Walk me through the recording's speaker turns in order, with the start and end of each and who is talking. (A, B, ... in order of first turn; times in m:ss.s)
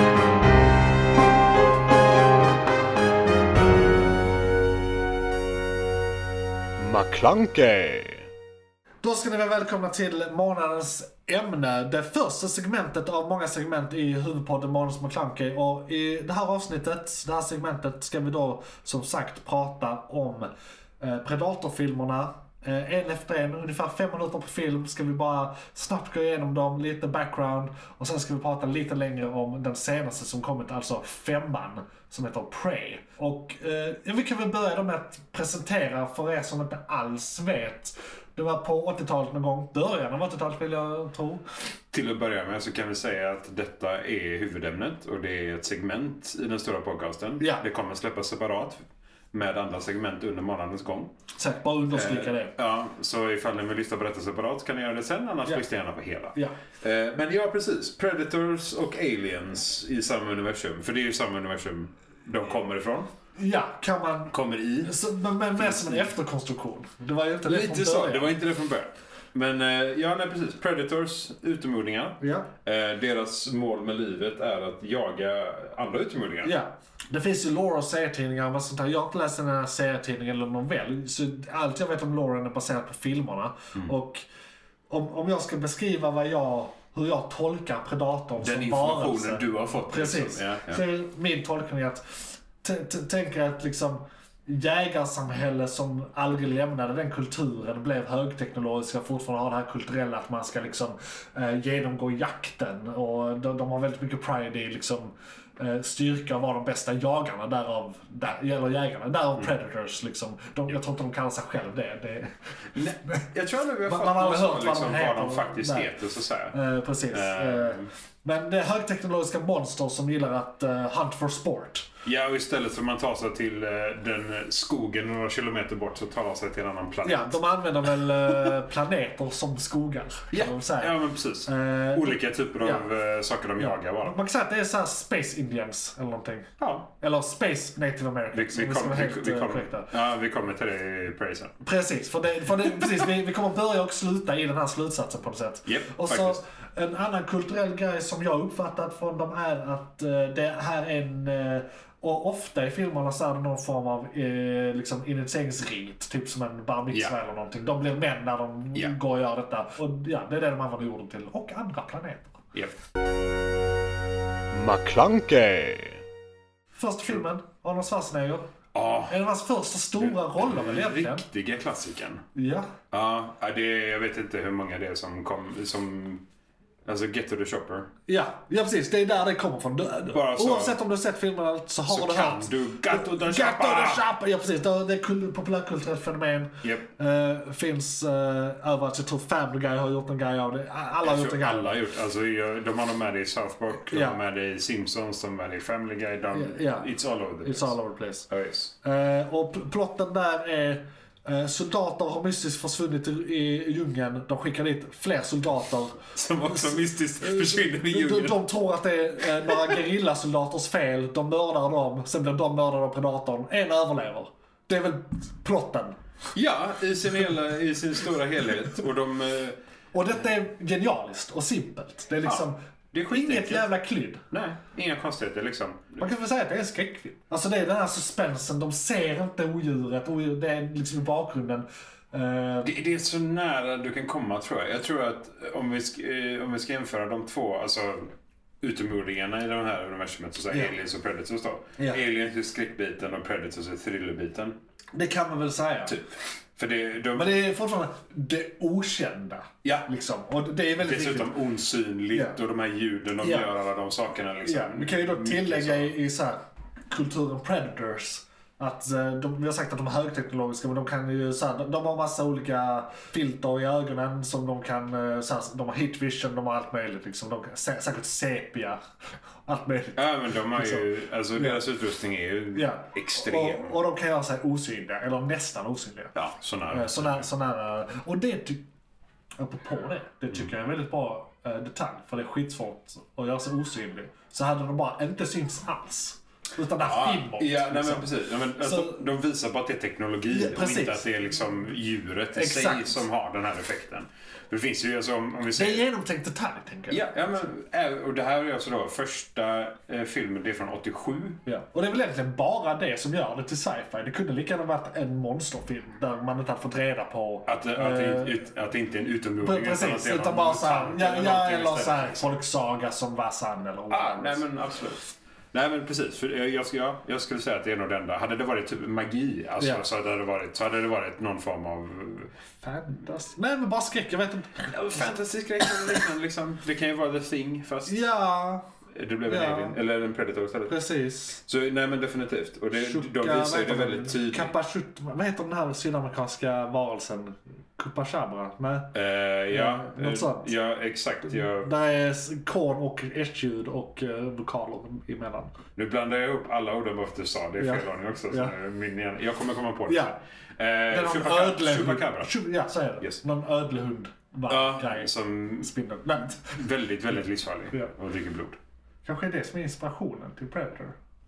0:06.8-0:08.2 A
0:09.0-0:41.4 B
0:41.9-0:51.1 C
0:51.4-0:52.5 B
0:51.9-1:03.1 C
1:03.4-1:08.3 B
1:04.3-1:05.0 C
1:05.5-1:06.1 C
1:07.4-1:16.5 C
1:12.2-1:12.5 B
1:16.4-1:24.2 B
1:24.9-1:52.3 B
1:28.4-1:30.8 C
1:52.7-1:56.6 C
1:53.8-1:55.9 B
1:56.5-2:01.9 B
1:57.1-1:57.9 C
2:02.0-2:08.3 C
2:07.0-2:12.9 B
2:10.3-2:14.2 C
2:13.6-2:19.9 B
2:16.6-2:16.9 C
2:18.3-2:21.6 C
2:21.6-2:42.4 B
2:25.6-2:26.4 C
2:44.5-2:45.8 A
2:46.7-2:48.5 B
2:48.7-2:49.2 C
2:49.1-2:51.2 B
2:50.0-2:52.2 C
2:52.3-2:52.7 B
2:52.9-2:56.2 C
2:56.8-2:57.9 C
2:58.1-3:11.7 B
3:00.0-3:00.8 C
3:01.9-3:04.0 C
3:11.0-3:17.7 C
3:13.8-3:14.2 B
3:16.3-3:16.9 B
3:17.4-3:18.3 B
3:18.3-3:18.7 C
3:18.8-3:36.0 B
3:26.1-3:28.5 C
3:29.2-3:29.8 C
3:36.3-3:39.6 C
3:39.9-3:44.2 B
3:42.2-3:43.7 C
3:44.3-3:46.0 C
3:46.0-3:52.7 B
3:52.6-4:04.6 C
4:04.9-4:05.9 B
4:05.8-4:07.3 C
4:07.1-4:11.3 B
4:09.6-4:09.9 C
4:10.8-4:15.9 C
4:13.2-4:13.5 B
4:14.4-4:28.8 B
4:29.4-4:31.6 B
4:30.0-4:33.8 C
4:32.5-4:36.1 B
4:36.1-4:37.3 C
4:36.7-4:38.6 B
4:39.4-4:48.1 B
4:46.8-4:55.8 C
4:48.6-4:49.0 B
4:50.3-4:51.0 B
4:52.3-4:53.0 B
4:55.5-4:57.5 B
4:56.9-5:01.4 C
5:01.4-5:08.4 B
5:07.5-5:12.2 C
5:09.4-5:14.4 B
5:13.9-5:22.3 C
5:19.6-5:19.8 B
5:22.6-5:25.0 B
5:24.7-5:28.0 C
5:27.9-5:28.6 B
5:28.9-5:30.7 C
5:29.2-5:29.7 B
5:30.7-5:31.4 B
5:31.4-5:34.5 C
5:32.8-5:38.9 B
5:38.9-5:41.7 C
5:39.5-5:40.5 B
5:41.2-5:45.6 B
5:45.8-5:52.4 C
5:47.6-5:48.5 B
5:49.9-5:50.2 B
5:50.9-5:56.6 B
5:54.5-5:55.7 C
5:56.4-5:58.6 C
5:59.0-6:01.0 B